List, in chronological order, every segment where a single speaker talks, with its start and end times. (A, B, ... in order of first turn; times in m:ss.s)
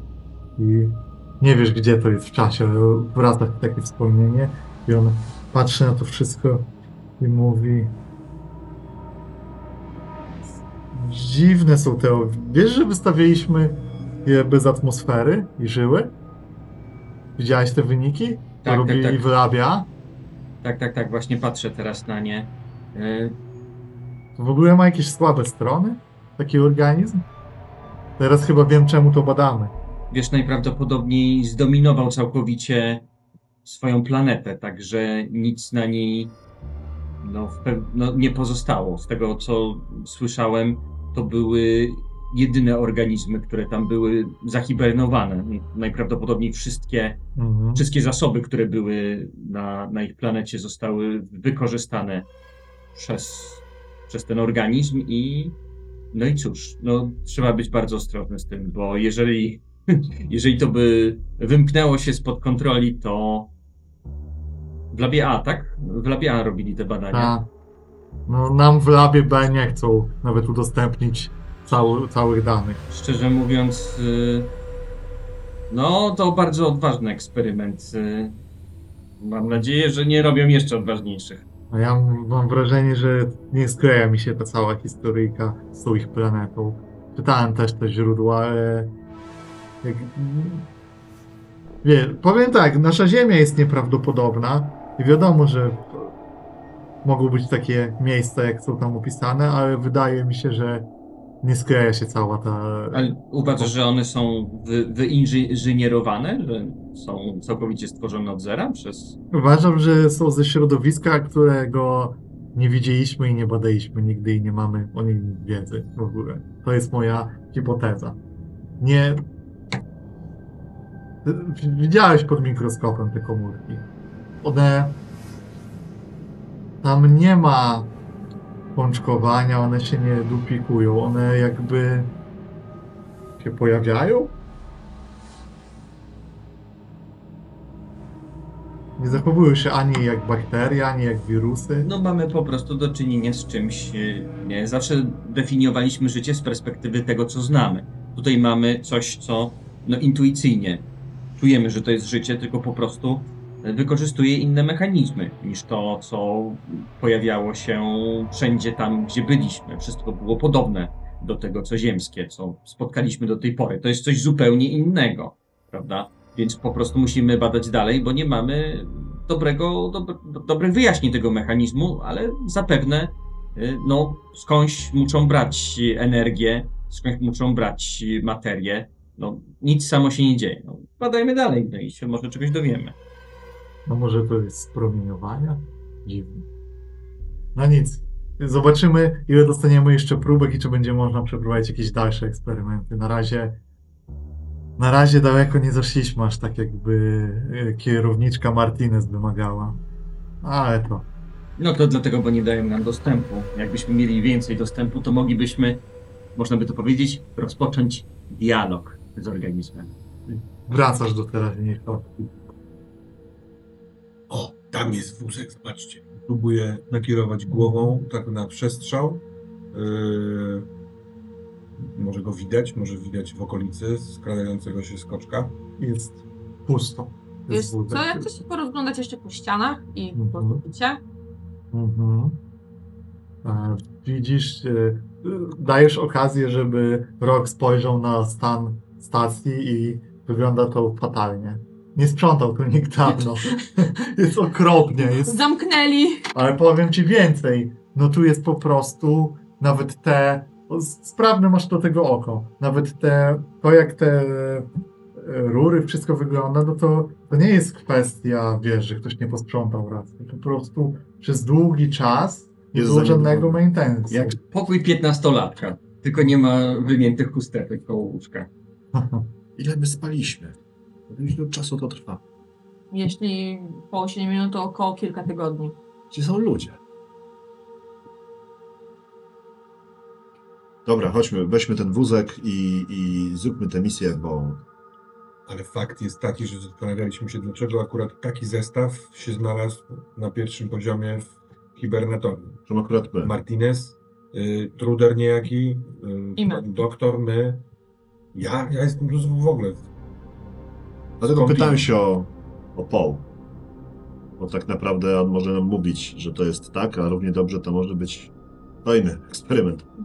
0:00.6-0:06.7 A
0:07.2-0:08.0 A
0:10.9-0:16.1 A
0:17.4-0:19.9 A
0:18.6-0:19.3 B
0:20.6-0:23.4 B
0:24.4-0:27.2 A
0:28.2-0:29.7 A
0:30.1-0:33.1 B
0:33.6-0:36.4 B
0:37.2-0:47.2 B
0:47.4-0:47.9 A
0:47.8-0:52.3 B
0:52.9-0:55.6 B
0:56.1-1:03.5 B
1:04.9-1:07.4 B
1:07.1-1:07.5 A
1:08.3-1:12.8 A
1:12.9-1:14.5 B
1:15.7-1:18.4 B
1:19.2-1:21.4 B
1:21.7-1:28.9 A
1:29.8-1:30.7 A
1:31.8-1:36.2 A
1:37.0-1:40.9 A
1:41.4-1:43.7 A
1:42.9-1:49.2 B
1:49.3-1:58.2 A
1:58.8-1:59.2 A
2:01.2-2:03.9 A
2:04.4-2:05.0 A
2:06.8-2:07.9 A
2:08.8-2:12.1 A
2:13.4-2:14.3 A
2:19.0-2:21.9 A
2:21.8-2:30.8 B
2:31.4-3:03.0 B
3:03.9-3:06.4 A
3:07.6-3:13.6 A
3:14.8-3:19.8 A
3:20.4-3:21.1 A
3:21.6-3:25.8 B
3:26.4-3:29.9 B
3:30.3-3:32.2 A
3:34.3-3:40.7 C
3:41.8-3:45.6 C
3:45.8-3:48.4 A
3:47.5-3:51.0 D
3:50.2-3:50.6 A
3:51.7-3:52.4 A
3:53.4-4:05.4 A
4:05.1-4:06.3 D
4:06.3-4:24.4 A
4:22.7-4:23.6 E
4:24.1-4:28.5 B
4:28.9-4:29.3 A
4:29.6-4:30.6 E
4:31.1-4:32.2 E
4:32.9-4:35.8 D
4:36.1-4:36.8 E
4:40.9-4:44.6 E
4:45.5-4:52.6 C
4:52.7-4:53.3 E
4:53.2-4:57.6 C
4:56.4-4:56.7 D
4:58.3-4:59.9 C
5:01.2-5:03.2 E
5:01.3-5:01.9 C
5:04.4-5:08.3 E
5:08.8-5:09.8 E